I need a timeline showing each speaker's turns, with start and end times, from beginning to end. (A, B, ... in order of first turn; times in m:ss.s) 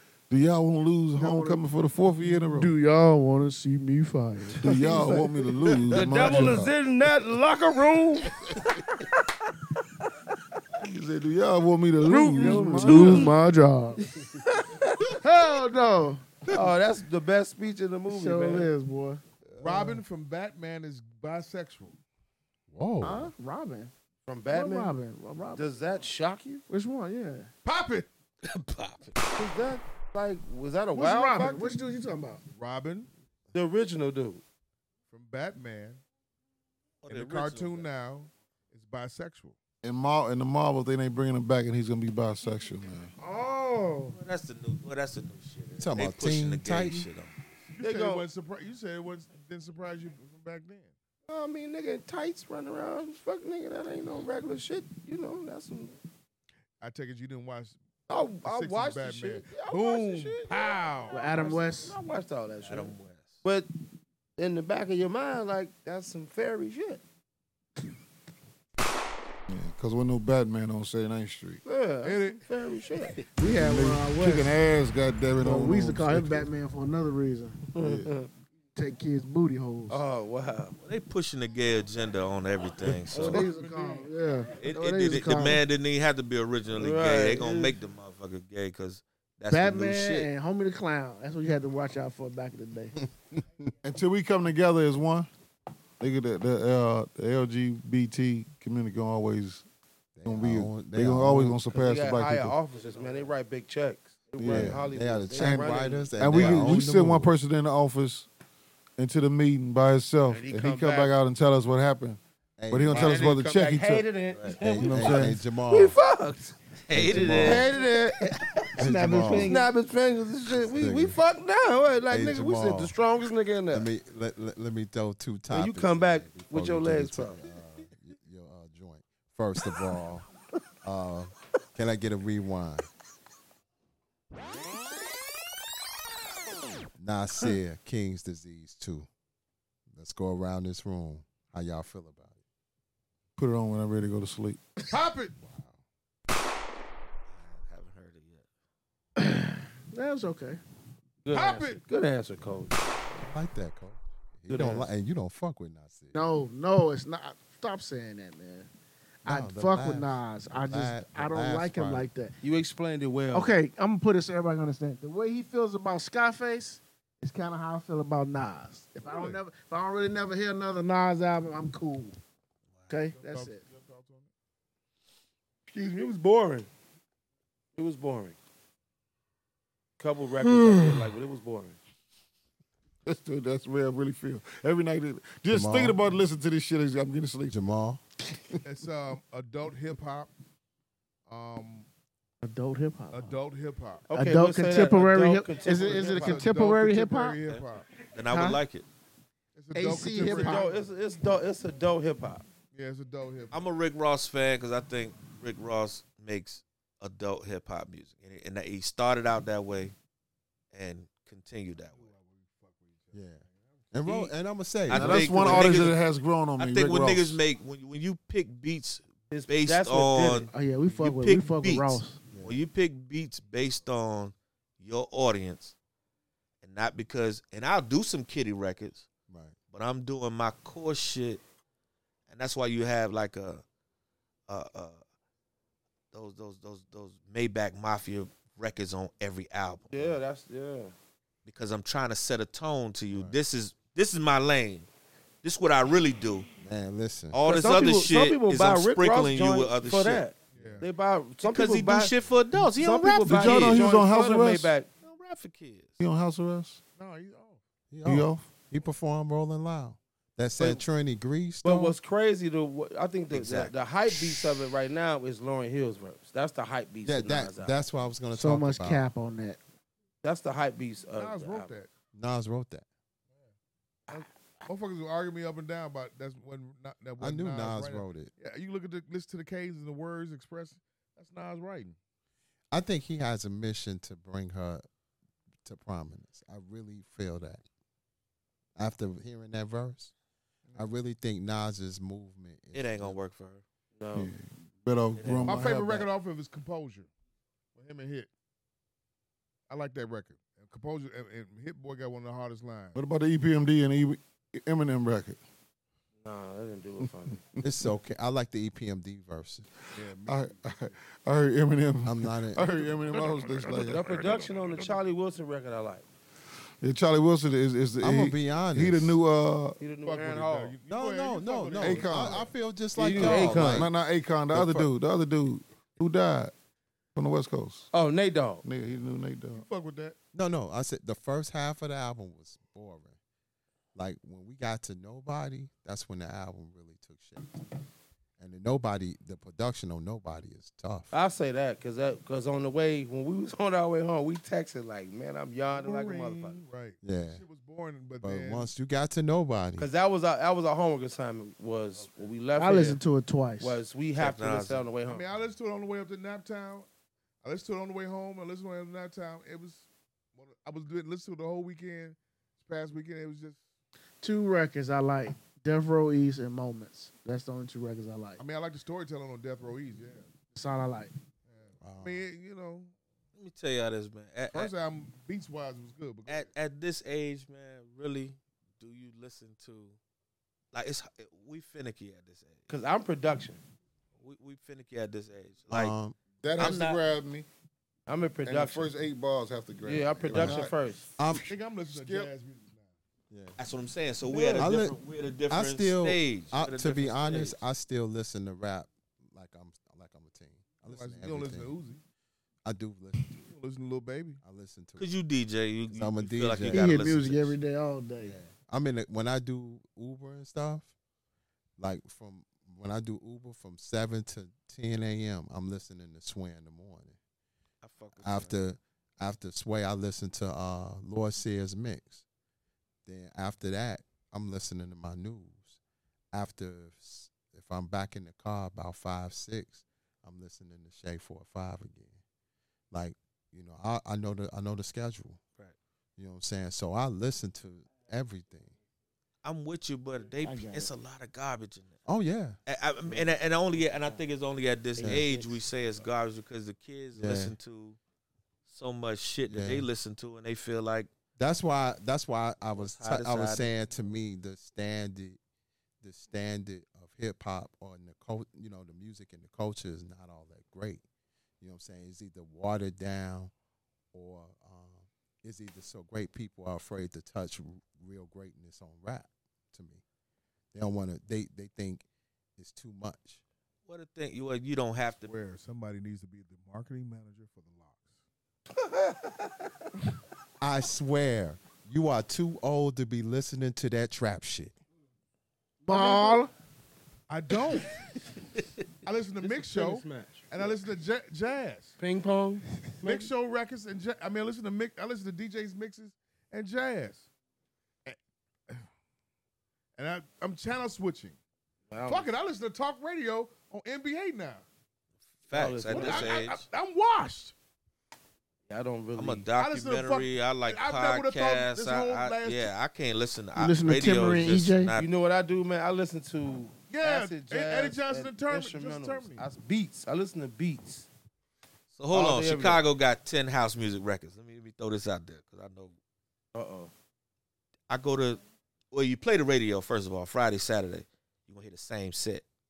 0:00.3-0:02.7 A
0:01.2-0:01.6 B
0:02.5-0:05.2 B
0:04.6-0:06.7 A
0:04.6-0:09.3 C
0:10.8-0:13.3 A
0:12.0-0:13.3 C
0:12.1-0:14.0 B
0:14.2-0:15.2 C
0:15.1-0:16.6 B
0:16.5-0:18.7 C
0:18.1-0:19.7 B
0:19.6-0:22.0 D
0:22.7-0:23.3 E
0:23.0-0:23.9 B
0:24.3-0:25.0 C
0:24.5-0:25.6 B
0:25.5-0:26.6 C
0:26.7-0:27.5 B
0:27.6-0:28.1 D
0:28.4-0:29.2 F
0:29.4-0:31.8 C
0:30.9-0:32.4 B
0:32.5-0:33.1 D
0:33.5-0:34.4 C
0:35.1-0:36.0 D
0:37.0-0:37.9 F
0:37.1-0:39.6 D
0:39.8-0:43.1 A
0:43.2-0:44.2 B
0:44.1-0:47.3 F
0:45.8-0:47.1 E
0:47.7-0:50.9 D
0:47.8-0:48.2 C
0:51.3-0:56.0 C
0:56.8-1:01.5 D
0:58.1-1:03.7 C
1:01.1-1:02.0 B
1:02.6-1:03.4 F
1:04.4-1:07.0 C
1:09.5-1:11.6 A
1:11.6-1:13.2 C
1:12.0-1:12.5 D
1:13.4-1:14.5 B
1:13.4-1:16.5 A
1:15.4-1:17.6 B
1:17.7-1:18.3 C
1:17.8-1:18.1 A
1:18.8-1:20.0 B
1:19.9-1:20.8 C
1:20.8-1:23.5 F
1:23.1-1:25.6 B
1:23.2-1:23.5 C
1:23.2-1:24.1 D
1:24.6-1:30.3 F
1:26.7-1:27.8 C
1:29.5-1:32.9 B
1:33.8-1:35.3 A
1:36.0-1:39.6 A
1:40.2-1:41.6 E
1:40.2-1:42.6 A
1:41.7-1:46.8 C
1:44.4-1:48.3 A
1:44.4-1:47.3 E
1:49.0-1:54.1 A
1:50.3-1:51.1 C
1:52.6-1:53.3 E
1:52.9-2:03.9 C
1:54.3-1:56.0 E
1:54.6-1:55.4 A
1:56.8-1:57.7 F
1:56.9-1:57.8 E
1:58.7-1:59.7 B
1:58.8-1:59.6 E
2:00.5-2:01.2 E
2:02.1-2:02.9 E
2:03.7-2:10.3 E
2:05.5-2:07.4 C
2:10.8-2:12.9 E
2:17.0-2:19.1 E
2:19.9-2:22.4 E
2:23.4-2:24.6 A
2:24.9-2:25.3 D
2:25.4-2:25.8 E
2:27.3-2:28.4 F
2:29.2-2:30.6 B
2:31.2-2:32.8 C
2:31.3-2:31.8 D
2:33.0-2:36.2 E
2:34.5-2:34.9 C
2:36.1-2:38.7 B
2:39.2-2:42.1 E
2:39.2-2:42.3 B
2:42.4-2:43.5 C
2:43.3-2:52.2 B
2:49.0-2:49.4 D
2:52.9-2:53.6 B
2:53.2-2:54.3 D
2:55.7-2:56.7 C
2:57.8-2:58.4 C
3:00.0-3:01.8 C
3:00.4-3:01.1 A
3:03.0-3:07.6 A
3:05.5-3:06.0 E
3:07.5-3:08.0 E
3:08.6-3:10.3 D
3:11.3-3:11.9 D
3:12.4-3:13.4 B
3:13.1-3:14.1 D
3:14.1-3:16.5 C
3:14.1-3:17.4 B
3:15.6-3:17.9 D
3:17.5-3:18.8 F
3:18.3-3:18.6 B
3:19.5-3:20.9 D
3:19.7-3:20.7 B
3:20.2-3:22.4 C
3:22.7-3:23.6 D
3:23.5-3:29.9 F
3:30.7-3:32.1 F
3:31.8-3:33.9 D
3:33.1-3:35.9 E
3:34.0-3:34.3 F
3:34.9-3:36.0 F
3:34.9-3:37.4 A
3:36.6-3:45.7 F
3:39.3-3:40.5 C
3:40.5-3:42.2 B
3:42.3-3:42.6 E
3:46.6-3:49.1 F
3:49.3-3:49.6 E
3:49.7-3:51.4 F
3:52.3-3:53.6 F
3:54.5-3:55.0 F
3:56.1-4:00.2 F
3:59.9-4:00.9 C
4:01.4-4:04.9 F
4:05.4-4:06.5 F
4:06.6-4:07.4 E
4:07.3-4:10.3 F
4:07.4-4:12.1 C
4:10.5-4:10.9 D
4:11.4-4:13.8 F
4:12.8-4:14.9 C
4:13.2-4:14.7 A
4:15.0-4:16.0 F
4:16.0-4:16.8 A
4:17.0-4:17.6 D
4:17.9-4:22.0 E
4:18.0-4:18.4 A
4:20.6-4:20.8 C
4:21.6-4:27.8 C
4:23.3-4:23.7 F
4:27.0-4:29.1 E
4:28.3-4:29.6 B
4:30.2-4:31.7 C
4:31.1-4:31.9 D
4:32.1-4:32.8 E
4:34.1-4:34.7 C
4:34.1-4:42.0 D
4:37.2-4:38.3 E
4:42.7-4:44.8 E
4:45.6-4:47.6 E
4:48.8-4:50.1 E
4:50.7-4:50.9 D
4:50.8-4:53.2 E
4:52.7-4:53.6 F
4:54.0-4:54.3 C
4:54.1-4:56.1 A
4:55.1-4:55.6 F
4:55.4-4:57.1 D
4:57.7-4:58.3 D
4:59.7-5:03.0 D
5:02.9-5:05.4 A
5:06.2-5:07.4 C
5:07.0-5:07.8 A
5:07.6-5:09.7 E
5:09.9-5:11.0 D
5:10.2-5:14.4 A
5:12.0-5:13.3 E
5:13.6-5:16.1 C
5:16.8-5:19.8 A
5:18.0-5:19.2 E
5:19.8-5:20.8 C
5:20.0-5:22.5 D
5:20.9-5:23.9 E
5:21.8-5:22.5 A
5:22.9-5:23.9 C
5:23.1-5:26.5 A
5:24.5-5:24.9 E
5:27.2-5:27.9 A
5:27.9-5:28.6 C
5:28.6-5:29.6 A
5:29.5-5:30.2 D
5:30.3-5:33.2 E
5:33.9-5:37.5 E
5:38.4-5:41.1 E
5:41.1-5:46.6 C
5:45.7-5:48.7 D
5:47.0-5:47.4 E
5:48.2-5:49.9 E
5:49.8-5:53.0 C
5:52.6-5:53.8 B
5:53.6-5:55.3 C
5:54.2-5:54.9 F
5:55.0-5:56.9 D
5:57.4-6:03.6 D
6:04.2-6:08.4 B
6:08.4-6:10.3 D
6:10.5-6:11.1 B
6:11.4-6:12.9 D
6:11.8-6:12.2 E
6:13.4-6:14.7 F
6:14.5-6:16.5 D
6:16.3-6:20.0 F
6:20.7-6:22.7 F
6:22.7-6:23.6 C
6:24.2-6:25.9 F
6:25.7-6:26.2 E
6:26.4-6:27.5 A
6:26.6-6:27.0 F
6:28.1-6:28.9 C
6:28.4-6:30.8 A
6:29.8-6:31.1 C
6:30.3-6:30.6 E
6:31.2-6:31.5 E
6:31.3-6:32.3 A
6:31.4-6:32.9 D
6:33.3-6:33.6 E
6:33.6-6:37.6 F
6:34.4-6:34.6 C
6:34.6-6:41.7 E
6:40.8-6:42.0 D
6:42.6-6:43.5 E
6:43.4-6:44.4 D
6:44.4-6:45.1 E
6:45.0-6:47.6 F
6:45.9-6:46.9 E
6:46.7-6:48.4 B
6:48.2-6:50.9 E
6:51.8-6:57.2 E
6:57.8-6:58.6 F
6:58.2-7:02.2 E
7:03.0-7:05.8 E
7:06.3-7:12.2 E
7:12.9-7:15.4 E
7:16.2-7:18.8 E
7:19.4-7:22.0 F
7:20.4-7:20.9 B
7:22.0-7:22.6 E
7:22.7-7:28.0 F
7:25.0-7:25.5 B
7:25.0-7:25.3 E
7:27.2-7:27.6 E
7:28.6-7:31.1 F
7:29.5-7:29.9 E
7:31.4-7:35.4 E
7:32.7-7:33.7 F
7:36.0-7:41.0 E
7:41.6-7:43.5 E
7:44.1-7:50.0 E
7:50.7-7:52.0 E
7:52.6-7:53.4 E
7:53.9-7:55.3 F
7:55.2-7:58.2 D
7:58.8-7:59.7 C
8:00.6-8:04.7 E
8:05.8-8:06.5 B
8:05.9-8:06.4 D
8:07.3-8:08.0 D
8:09.0-8:12.0 D
8:09.4-8:10.7 C
8:12.0-8:13.3 C
8:13.0-8:17.2 D
8:18.0-8:18.8 D
8:20.0-8:21.4 D
8:21.9-8:22.3 C
8:22.0-8:24.6 D
8:25.4-8:26.6 F
8:25.5-8:26.4 C
8:25.9-8:27.5 D
8:28.7-8:29.5 C
8:29.1-8:35.1 F
8:29.5-8:32.7 D
8:33.6-8:34.9 B
8:35.0-8:41.1 C
8:36.9-8:39.4 D
8:41.9-8:46.0 F
8:42.1-8:42.8 C
8:46.5-8:46.9 C
8:47.9-8:52.4 F